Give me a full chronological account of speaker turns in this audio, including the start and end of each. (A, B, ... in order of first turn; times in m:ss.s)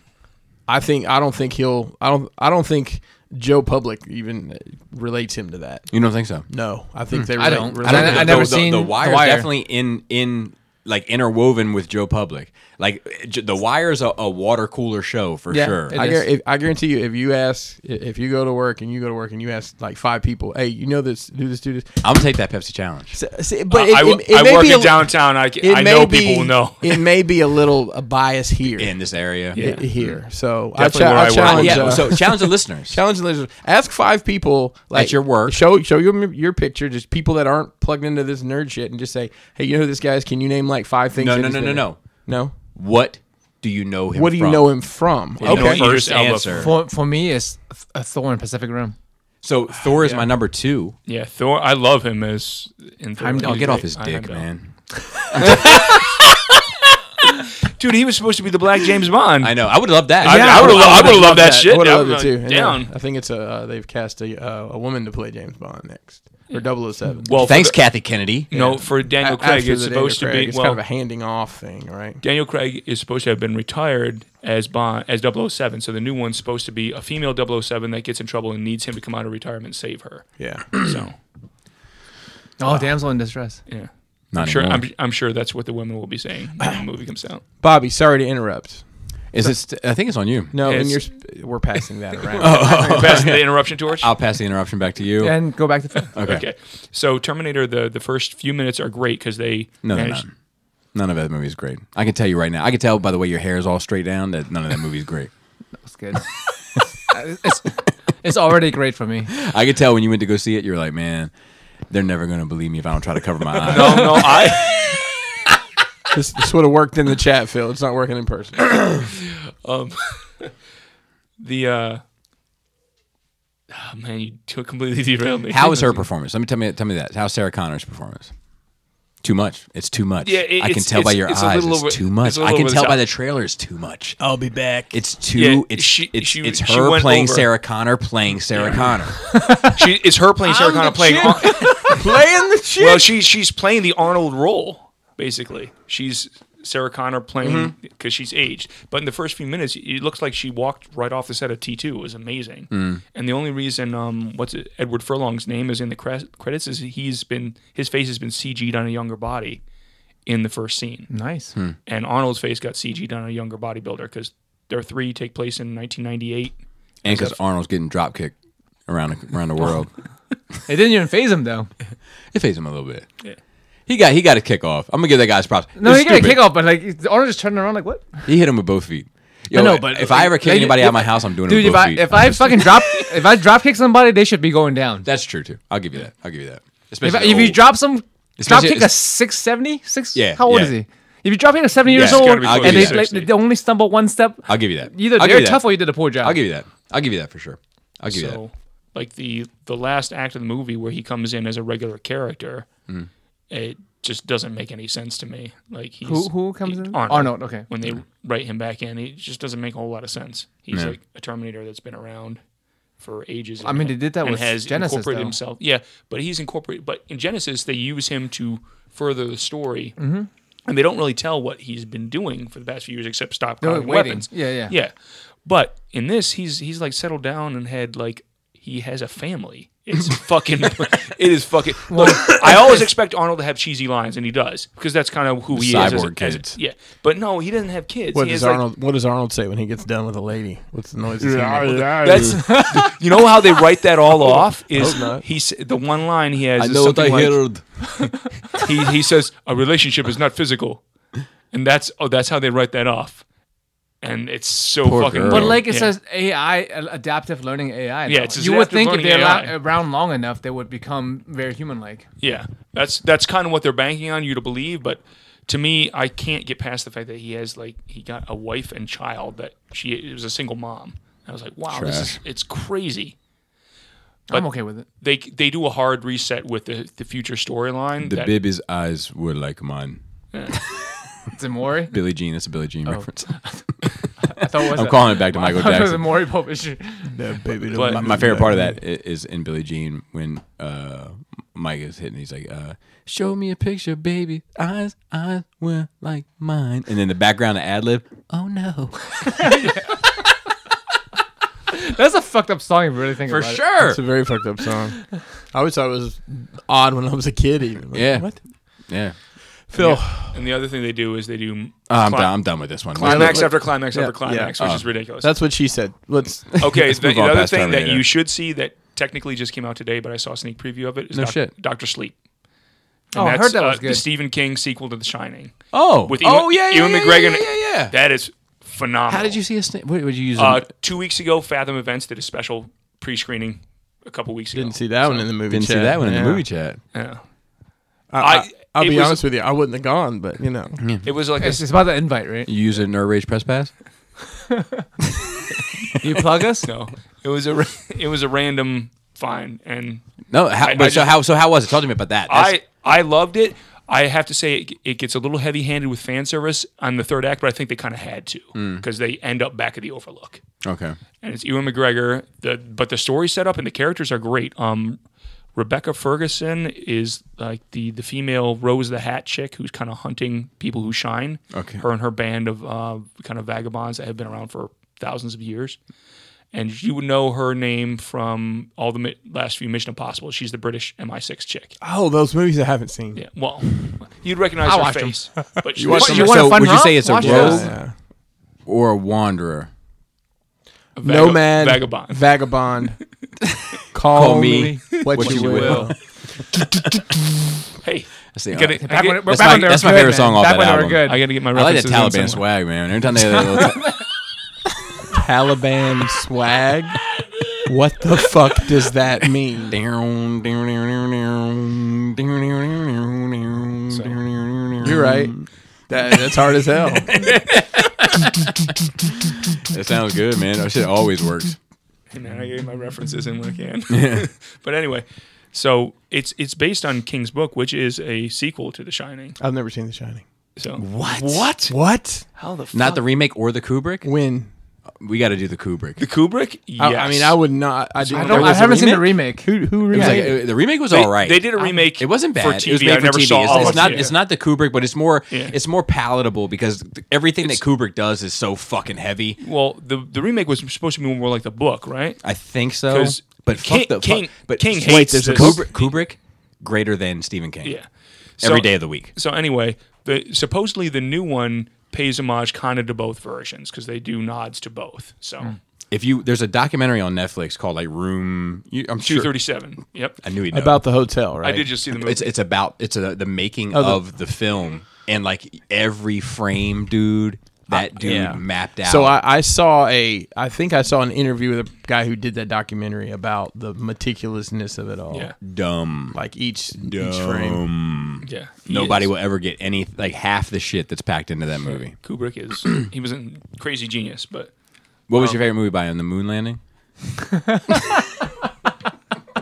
0:00.7-0:08.7 A
0:05.9-0:06.5 B
0:07.4-0:09.5 C
0:07.8-0:16.2 B
0:15.5-0:22.0 A
0:22.0-0:23.2 B
0:23.1-0:42.6 A
0:23.7-0:27.0 D
0:28.8-0:30.2 B
0:29.5-0:29.9 D
0:30.7-0:32.2 D
0:31.3-0:33.0 B
0:34.9-0:35.6 B
0:41.2-0:42.0 B
0:42.7-0:46.7 B
0:44.1-0:45.8 A
0:45.4-0:46.7 D
0:46.5-0:49.0 C
0:49.4-0:51.0 B
0:51.1-0:54.5 D
0:53.2-0:53.8 C
0:53.4-0:54.8 B
0:55.2-0:56.0 C
0:55.3-0:55.6 B
0:55.4-0:56.3 D
0:57.2-1:02.9 D
0:59.4-1:01.2 B
1:00.3-1:01.3 C
1:00.3-1:07.4 A
1:07.2-1:10.8 D
1:07.4-1:08.5 B
1:08.5-1:12.2 A
1:12.2-1:21.2 D
1:20.4-1:20.8 A
1:22.6-1:23.6 C
1:23.7-1:27.4 D
1:24.3-1:24.9 B
1:27.6-1:29.6 A
1:29.3-1:30.6 B
1:30.5-1:32.8 A
1:30.6-1:31.1 D
1:32.4-1:35.4 B
1:32.4-1:34.1 D
1:35.2-1:36.1 C
1:36.0-1:40.3 D
1:36.1-1:36.4 B
1:39.8-1:40.3 B
1:40.9-1:45.3 B
1:45.8-1:49.3 C
1:49.3-1:51.3 B
1:51.9-1:54.4 B
1:53.6-1:55.0 D
1:56.1-1:58.8 A
1:59.2-2:00.5 D
2:01.4-2:02.0 D
2:03.7-2:06.1 D
2:05.5-2:08.3 B
2:09.2-2:14.2 B
2:10.2-2:13.0 D
2:14.2-2:15.0 A
2:14.9-2:19.2 B
2:15.3-2:17.5 D
2:18.5-2:19.0 D
2:19.5-2:21.9 D
2:20.4-2:23.2 A
2:21.4-2:21.8 C
2:22.8-2:39.6 D
2:27.4-2:27.8 B
2:32.7-2:33.0 B
2:40.3-2:41.1 D
2:41.1-2:41.5 C
2:41.8-2:47.4 D
2:47.0-2:48.3 B
2:48.9-2:49.9 B
2:50.7-2:51.7 C
2:52.3-2:53.1 B
2:53.9-2:56.4 B
2:55.8-2:58.3 C
2:58.2-3:03.0 B
2:59.5-3:05.1 C
3:05.0-3:07.7 B
3:07.0-3:16.4 C
3:08.4-3:08.9 B
3:10.1-3:10.7 B
3:11.9-3:13.3 D
3:11.9-3:13.0 B
3:14.5-3:18.4 B
3:18.1-3:22.7 D
3:23.5-3:32.4 D
3:26.0-3:27.7 C
3:30.7-3:31.0 B
3:33.0-3:40.0 D
3:33.6-3:35.4 C
3:40.0-3:40.3 C
3:40.7-3:58.6 D
3:43.6-3:44.8 C
3:51.9-3:52.7 C
3:55.5-3:56.6 B
3:58.1-4:02.4 A
4:01.4-4:02.4 B
4:01.9-4:07.6 D
4:02.2-4:03.0 C
4:04.7-4:05.2 A
4:06.6-4:07.9 B
4:08.5-4:10.8 D
4:11.5-4:13.2 D
4:14.0-4:15.9 D
4:14.8-4:15.6 B
4:15.3-4:22.1 C
4:18.1-4:19.5 D
4:22.2-4:33.2 D
4:31.7-4:32.2 B
4:34.3-4:34.9 C
4:34.3-4:38.4 D
4:38.0-4:40.6 B
4:40.3-4:40.6 D
4:41.3-4:42.0 C
4:41.9-4:46.2 B
4:42.9-4:43.6 C
4:44.2-4:47.2 C
4:47.1-4:48.8 A
4:47.7-4:48.1 D
4:47.8-4:59.7 B
4:59.4-4:59.9 C
5:01.7-5:03.7 C
5:03.3-5:04.0 B
5:03.8-5:08.4 A
5:07.9-5:09.2 B
5:09.7-5:10.4 A
5:09.8-5:15.3 D
5:11.9-5:13.5 B
5:13.0-5:16.7 A
5:14.6-5:14.9 B
5:16.6-5:18.1 B
5:16.6-5:22.2 D
5:21.1-5:21.5 B
5:23.1-5:29.4 D
5:23.1-5:24.0 C
5:25.7-5:28.0 B
5:29.1-5:30.7 B
5:30.4-5:35.3 D
5:34.5-5:36.4 A
5:35.5-5:36.8 B
5:36.9-5:37.2 D
5:38.1-5:40.8 A
5:38.2-5:39.2 D
5:40.8-5:41.1 B
5:41.0-5:41.6 D
5:41.4-5:42.5 C
5:42.4-5:43.7 B
5:44.5-5:44.8 C
5:46.0-5:46.7 C
5:46.6-5:50.0 D
5:50.3-5:52.6 B
5:50.6-5:51.2 D
5:52.3-6:00.4 D
5:58.6-5:58.8 B
6:00.6-6:01.0 B
6:01.2-6:05.0 D
6:05.6-6:15.8 D
6:11.5-6:11.8 B
6:16.5-6:21.8 D
6:21.8-6:23.3 A
6:23.1-6:26.8 D
6:24.6-6:27.7 C
6:25.8-6:26.4 A
6:25.9-6:27.7 B
6:27.2-6:27.9 A
6:27.3-6:27.6 D
6:28.7-6:29.7 B
6:31.0-6:32.4 D
6:31.0-6:33.0 A
6:33.9-6:36.0 A
6:34.1-6:35.9 B
6:34.9-6:35.9 D
6:37.8-6:39.8 D
6:38.3-6:44.0 B
6:38.8-6:41.2 C
6:41.0-6:42.5 D
6:45.1-6:47.0 A
6:47.6-6:49.8 A
6:49.7-6:55.4 B
6:53.9-6:54.2 D
6:54.8-6:57.1 A
6:57.1-6:58.5 B
6:59.6-7:01.6 B
7:02.1-7:09.4 D
7:03.9-7:04.3 B
7:09.4-7:10.2 A
7:10.6-7:11.7 D
7:10.8-7:11.6 B
7:11.7-7:12.2 A
7:12.4-7:13.0 D
7:12.7-7:14.1 B
7:14.0-7:14.5 A
7:15.0-7:16.0 B
7:16.0-7:17.4 D
7:16.8-7:20.4 A
7:18.1-7:20.3 C
7:18.2-7:18.7 D
7:19.9-7:29.4 B
7:20.8-7:24.2 D
7:21.6-7:21.8 C
7:23.4-7:24.1 C
7:25.3-7:25.6 D
7:29.4-7:32.2 D
7:32.2-7:37.8 B
7:32.9-7:35.8 D
7:34.8-7:35.7 A
7:37.6-7:45.6 D
7:38.4-7:39.1 B
7:45.9-7:49.4 B
7:49.0-7:50.2 D
7:50.2-7:50.8 B
7:50.5-7:51.7 A
7:51.4-7:52.3 D
7:51.9-7:59.2 B
7:53.7-7:54.0 A
7:57.7-8:05.3 A
8:05.4-8:06.2 B
8:06.1-8:07.6 A
8:06.8-8:12.0 B
8:08.2-8:09.1 D
8:11.9-8:14.5 D
8:15.1-8:16.6 B
8:15.1-8:15.4 D